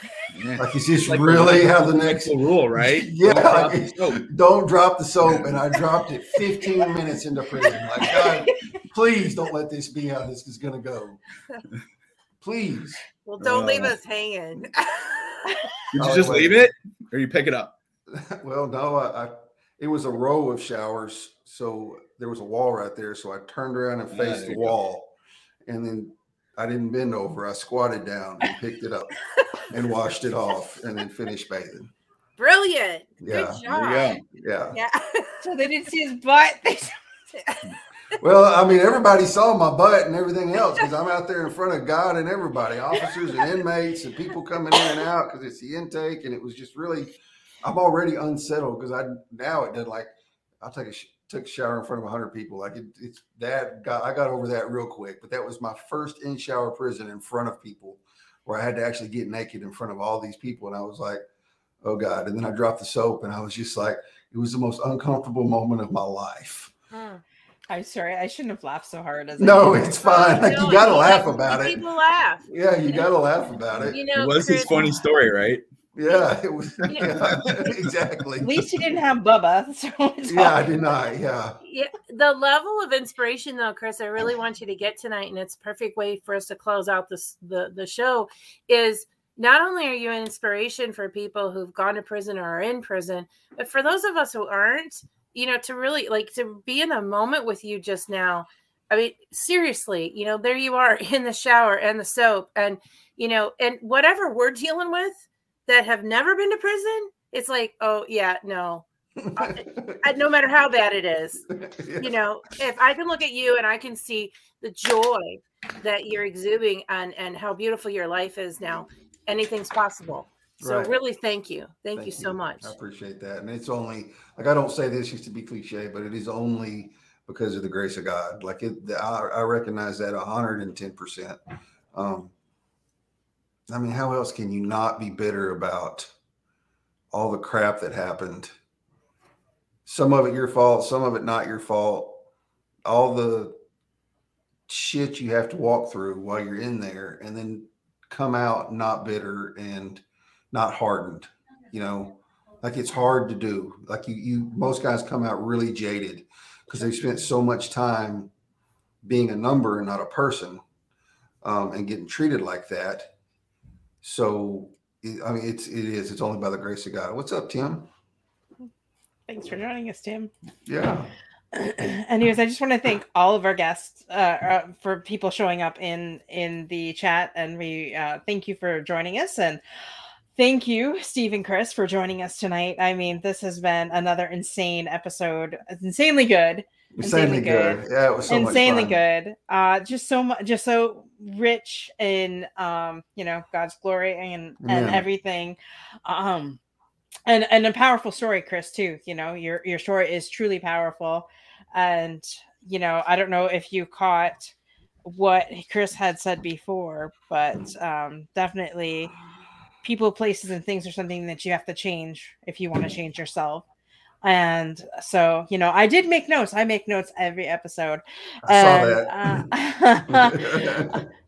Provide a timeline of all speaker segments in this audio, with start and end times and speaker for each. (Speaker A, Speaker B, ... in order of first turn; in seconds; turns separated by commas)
Speaker A: 0.3-4.2, Speaker B: 0.6-11.2, Speaker B: 12.4-13.0, Speaker C: 13.2-15.7, Speaker A: 13.4-13.9, Speaker A: 15.9-17.8, Speaker B: 16.0-16.7, Speaker B: 18.1-25.1, Speaker A: 24.1-24.7, Speaker B: 25.7-29.1, Speaker B: 29.7-31.9, Speaker C: 32.4-34.2, Speaker B: 33.2-34.8, Speaker A: 33.7-34.2, Speaker C: 34.7-35.5, Speaker D: 35.4-36.9, Speaker C: 37.3-38.2, Speaker B: 38.2-61.2, Speaker B: 61.8-66.7, Speaker C: 66.9-67.2, Speaker D: 67.7-70.0, Speaker B: 69.4-71.8, Speaker C: 70.0-73.0, Speaker B: 72.5-74.0, Speaker C: 73.8-75.0, Speaker A: 74.1-75.6, Speaker B: 76.0-78.7, Speaker A: 76.8-77.3, Speaker C: 76.9-77.7, Speaker D: 78.4-80.6, Speaker B: 80.3-81.6, Speaker C: 81.6-111.5, Speaker B: 109.2-110.0, Speaker B: 111.5-112.1, Speaker C: 112.0-122.7, Speaker B: 120.6-121.0, Speaker B: 122.0-131.4, Speaker B: 131.9-132.3, Speaker B: 133.7-136.1, Speaker B: 137.1-138.5, Speaker B: 139.9-142.2, Speaker B: 142.8-143.6, Speaker B: 144.7-158.3, Speaker B: 159.0-160.6, Speaker B: 161.4-163.1, Speaker B: 164.0-167.9, Speaker D: 169.3-170.3, Speaker B: 170.7-171.1, Speaker D: 171.5-179.6, Speaker D: 180.4-196.6, Speaker B: 187.0-189.0, Speaker B: 194.6-195.1, Speaker D: 197.3-204.5, Speaker D: 205.1-209.1, Speaker D: 209.8-213.7, Speaker D: 214.2-221.0, Speaker B: 218.5-219.5, Speaker B: 220.1-221.1